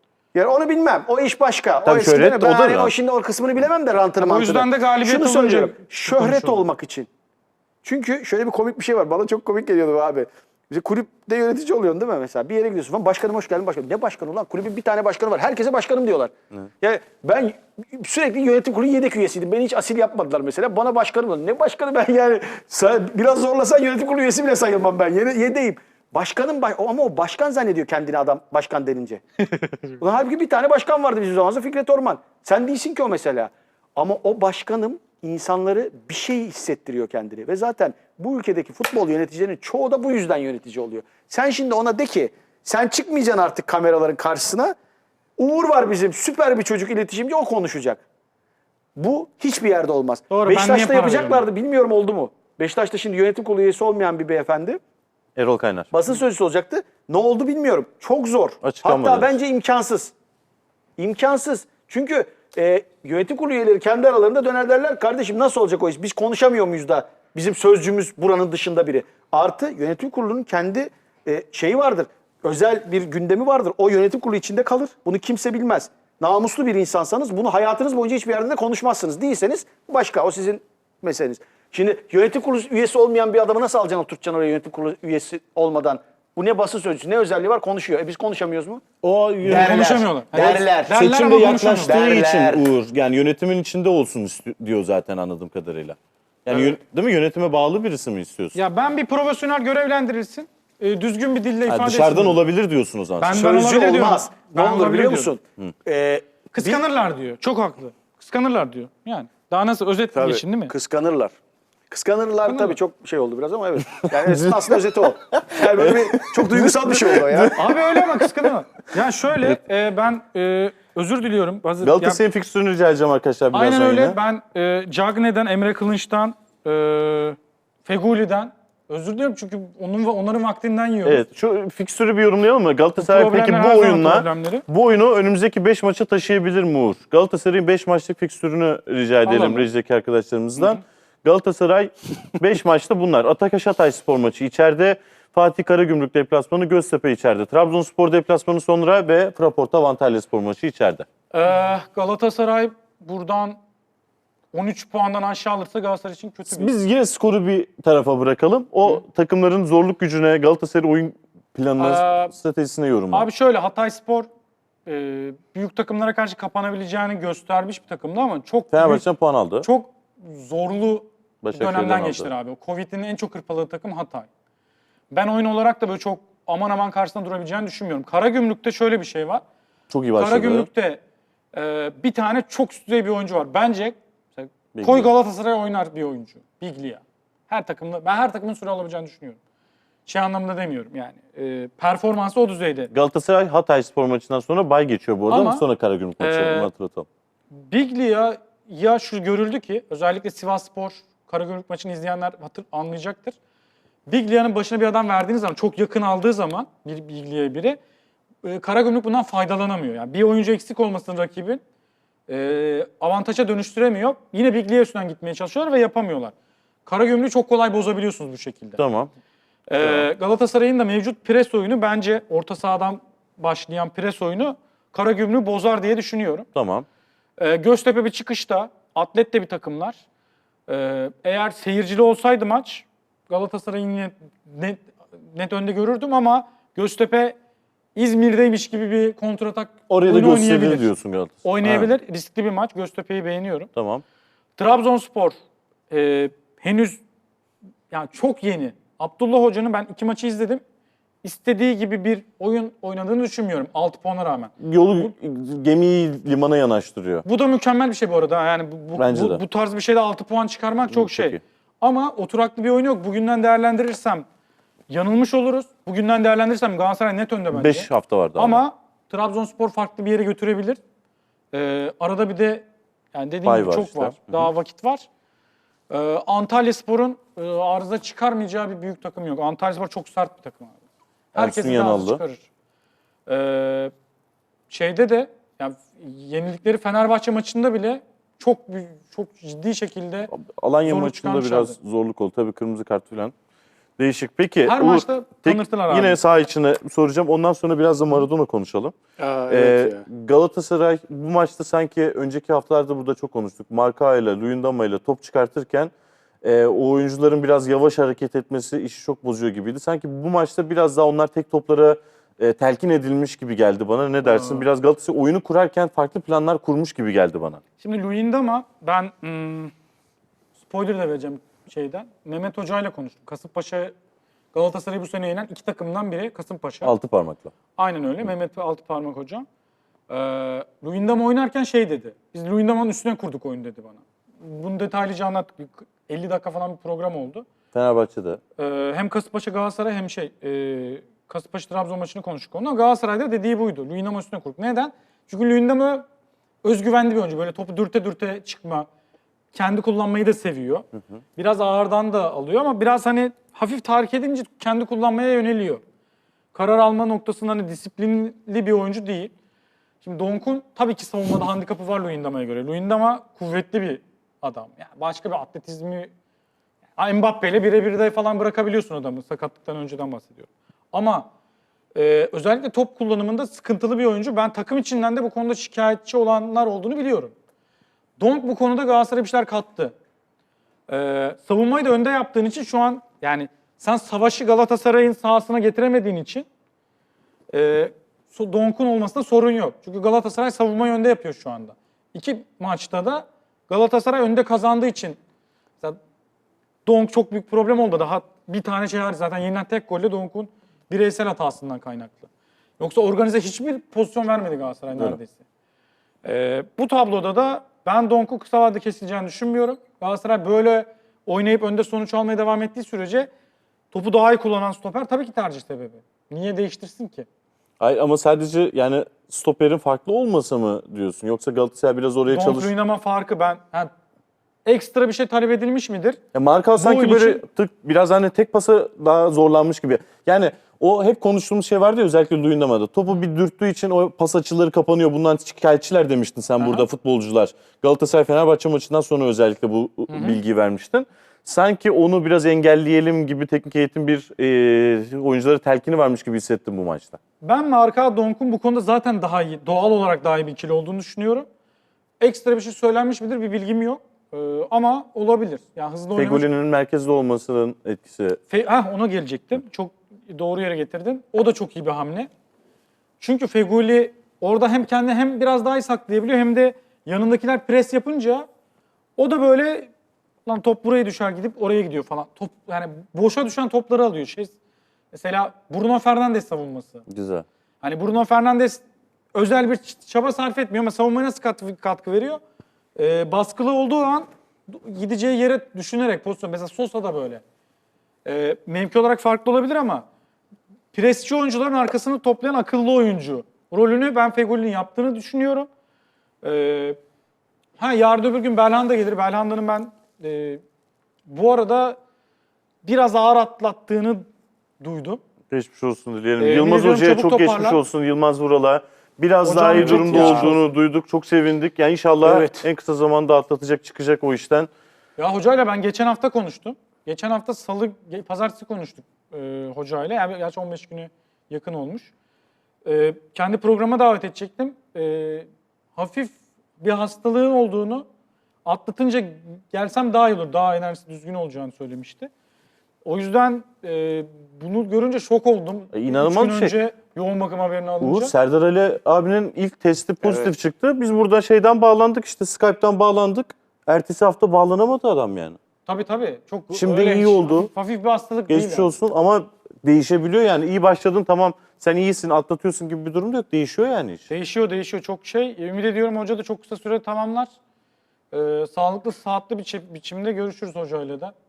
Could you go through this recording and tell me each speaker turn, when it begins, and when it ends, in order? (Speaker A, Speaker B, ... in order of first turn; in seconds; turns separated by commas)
Speaker A: 0.3-7.1, Speaker B: 1.8-2.9, Speaker C: 4.2-6.6, Speaker A: 7.8-29.2, Speaker A: 29.9-44.7, Speaker A: 45.4-48.0, Speaker A: 49.0-54.8, Speaker C: 50.3-51.4, Speaker B: 55.4-55.9, Speaker A: 55.9-60.1, Speaker B: 58.6-59.3, Speaker A: 61.0-88.8, Speaker B: 89.0-90.0, Speaker A: 89.4-92.7, Speaker C: 89.5-92.0, Speaker B: 90.9-98.6, Speaker C: 98.5-102.4, Speaker B: 101.7-103.4, Speaker C: 103.2-105.3, Speaker A: 103.3-106.8, Speaker C: 106.5-110.7, Speaker A: 110.1-111.4, Speaker A: 111.9-117.7, Speaker C: 112.5-112.8, Speaker B: 114.0-118.3, Speaker C: 117.5-122.2, Speaker B: 121.8-124.2, Speaker C: 123.5-131.2, Speaker B: 131.0-151.1, Speaker C: 133.0-134.6, Speaker C: 139.2-139.7, Speaker C: 151.3-153.6, Speaker C: 154.5-156.7, Speaker B: 156.5-163.3, Speaker C: 161.8-162.3, Speaker C: 163.1-164.3, Speaker C: 164.8-169.0, Speaker B: 168.7-169.7, Speaker C: 169.6-174.3, Speaker B: 171.4-172.3, Speaker C: 175.1-179.4, Speaker B: 179.9-180.7, Speaker C: 180.2-181.0, Speaker C: 181.5-189.4, Speaker B: 184.7-185.1, Speaker C: 190.1-192.9, Speaker B: 192.9-197.1, Speaker C: 195.3-195.6, Speaker C: 196.2-196.7, Speaker C: 197.5-203.3, Speaker C: 204.1-207.8, Speaker C: 208.4-211.6, Speaker C: 212.3-216.3, Speaker C: 216.8-218.8, Speaker B: 218.8-219.1, Speaker C: 219.7-226.5, Speaker B: 219.8-220.1, Speaker B: 226.5-226.8, Speaker C: 227.4-230.0, Speaker C: 230.7-237.3, Speaker C: 237.9-240.9, Speaker B: 239.9-241.9, Speaker C: 241.4-243.7, Speaker B: 243.7-244.0, Speaker C: 244.6-245.4, Speaker C: 245.9-247.0, Speaker C: 247.9-250.6, Speaker C: 251.2-255.1, Speaker B: 254.6-257.2, Speaker C: 257.2-264.2, Speaker B: 258.9-259.4, Speaker B: 260.9-261.4, Speaker C: 264.9-270.8, Speaker B: 267.5-268.6, Speaker C: 271.5-275.1, Speaker B: 273.4-274.5, Speaker C: 275.9-280.7, Speaker C: 281.3-282.4, Speaker B: 281.3-282.2, Speaker C: 283.3-283.9, Speaker C: 284.7-290.3, Speaker B: 290.3-293.3, Speaker C: 290.9-291.7, Speaker B: 294.0-298.9, Speaker C: 294.6-296.2, Speaker A: 299.2-300.1, Speaker B: 299.5-317.6, Speaker C: 314.2-314.6, Speaker C: 317.8-319.7, Speaker C: 320.6-323.9, Speaker C: 324.5-326.9, Speaker B: 326.8-327.5, Speaker C: 327.8-329.5, Speaker C: 330.1-337.4, Speaker B: 337.7-338.4, Speaker C: 338.6-346.1, Speaker C: 346.6-348.9, Speaker C: 349.5-350.9, Speaker C: 351.4-355.8, Speaker C: 356.5-359.3, Speaker C: 360.0-366.1, Speaker C: 367.0-371.3, Speaker C: 371.9-377.3, Speaker C: 378.2-379.9, Speaker C: 380.9-386.5, Speaker C: 387.5-395.2, Speaker C: 396.9-405.4, Speaker C: 406.2-413.3, Speaker C: 413.9-417.2, Speaker B: 417.8-422.7, Speaker C: 422.2-423.9, Speaker C: 424.6-426.2, Speaker B: 426.3-447.2, Speaker C: 426.8-427.4, Speaker C: 436.6-436.9, Speaker C: 440.1-440.4, Speaker C: 447.4-451.5, Speaker C: 452.2-456.4, Speaker B: 456.1-458.4, Speaker C: 458.5-462.3, Speaker C: 463.2-468.5, Speaker C: 469.2-469.9, Speaker C: 470.4-474.5, Speaker C: 475.1-477.0, Speaker B: 477.1-477.4, Speaker C: 477.8-478.8, Speaker C: 479.3-482.4, Speaker C: 482.9-487.4, Speaker C: 488.2-490.1, Speaker C: 490.9-495.7, Speaker C: 496.4-497.0, Speaker C: 497.8-500.6, Speaker C: 501.2-502.0, Speaker C: 502.8-504.3, Speaker C: 504.8-505.2, Speaker B: 505.5-514.7, Speaker C: 506.4-507.8, Speaker C: 509.4-510.6, Speaker A: 509.8-510.5, Speaker A: 512.2-512.6, Speaker C: 515.2-522.1, Speaker C: 522.8-528.0, Speaker C: 528.6-532.3, Speaker C: 533.0-538.3, Speaker B: 535.9-536.7, Speaker B: 538.0-545.6, Speaker C: 545.9-548.9, Speaker B: 546.7-547.7, Speaker B: 548.5-554.2, Speaker C: 554.3-557.5, Speaker C: 558.3-561.3